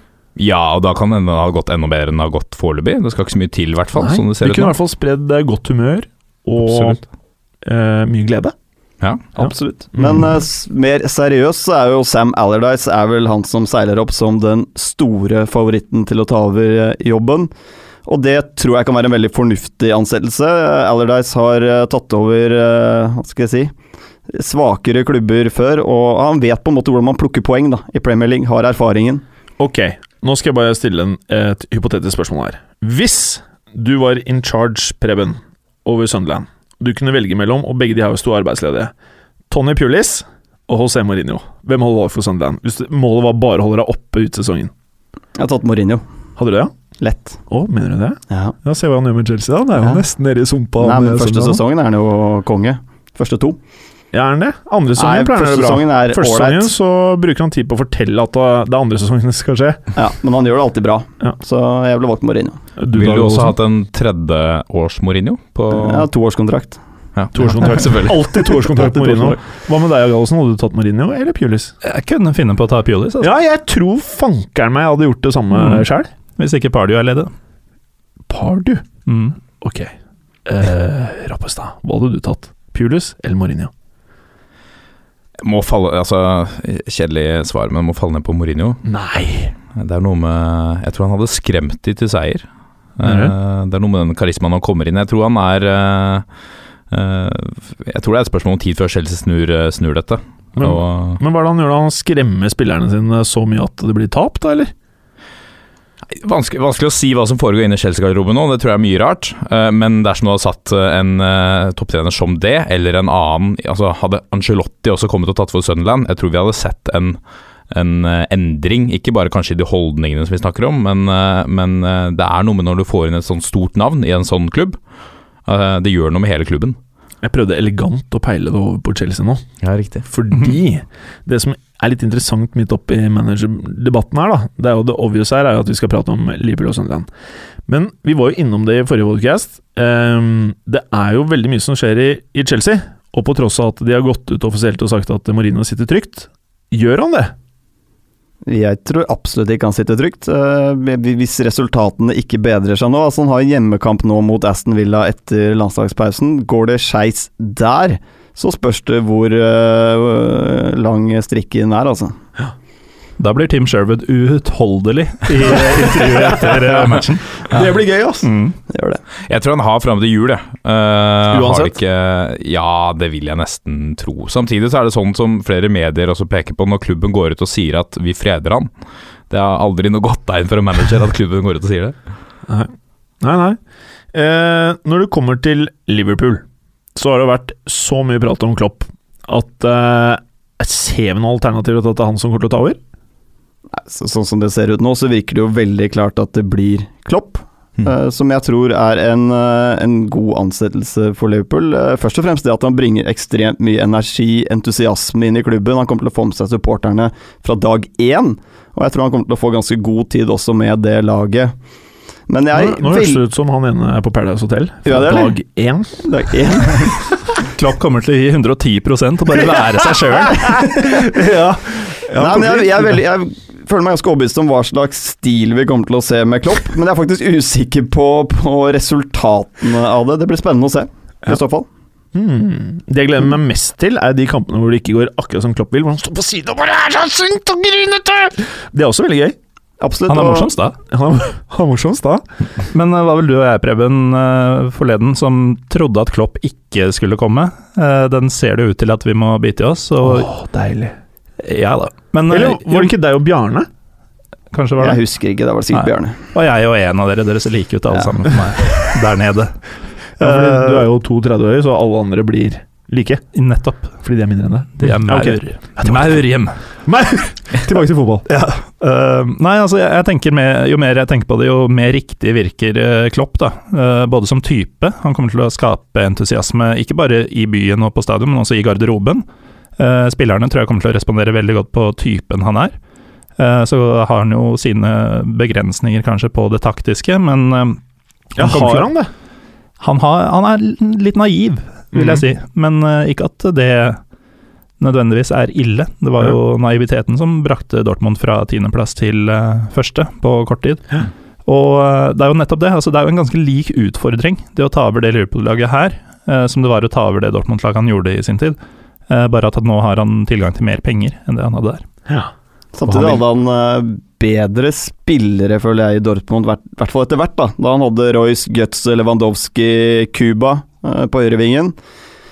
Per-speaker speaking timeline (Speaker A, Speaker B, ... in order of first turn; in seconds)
Speaker A: 0.3-4.8, 6.6-7.0, 9.0-9.2, 62.9-66.1, 67.2-69.1, 85.4-88.8, 89.7-96.2, 96.9-101.2, 106.2-117.2, 117.7-124.8, 125.5-126.8, 129.6-130.1, 169.3-178.7, 179.3-182.0
Speaker B: 3.9-7.0, 7.6-8.5, 9.4-10.3, 29.6-38.9, 39.5-44.7, 46.4-46.7, 47.5-51.6, 54.1-59.8, 62.8-63.5, 67.3-71.7, 73.2-76.1, 78.3-78.8, 79.6-79.9, 80.5-83.7, 88.8-89.5, 93.0-93.3, 100.6-104.7, 127.2-129.4, 130.1-137.1, 137.7-147.3, 166.1-166.7, 167.5-168.2, 171.3-171.7, 183.2-183.6, 184.1-186.4, 186.9-192.8, 212.5-216.0, 220.7-223.0, 232.1-239.3, 240.9-242.2, 250.0-250.9, 252.3-253.7, 260.2-263.2, 264.0-266.2, 266.9-268.3, 288.4-289.1, 291.9-292.2, 312.9-313.2
Speaker C: 9.3-17.5, 18.1-23.7, 24.3-29.2, 45.4-46.0, 47.0-47.4, 48.3-48.5, 50.8-53.6, 54.9-56.7, 59.9-62.6, 65.7-66.8, 148.4-162.2, 168.7-169.0, 193.7-211.5, 212.3-213.2, 214.8-215.3, 216.0-217.0, 220.5-220.8, 222.1-231.7, 239.8-240.5, 254.8-256.2, 312.7-321.8
Speaker D: 71.8-73.3, 75.5-75.8, 76.4-77.3, 79.1-79.3, 163.2-167.5, 168.2-168.6, 217.5-220.5, 240.1-240.8, 242.7-250.3, 251.4-252.9, 254.5-255.0, 255.7-259.6, 260.2-260.9, 263.3-263.9, 264.8-266.5, 268.3-279.2, 279.8-282.7, 283.4-287.8, 288.4-288.9, 289.8-294.0, 294.8-300.9, 301.4-308.6, 309.1-311.8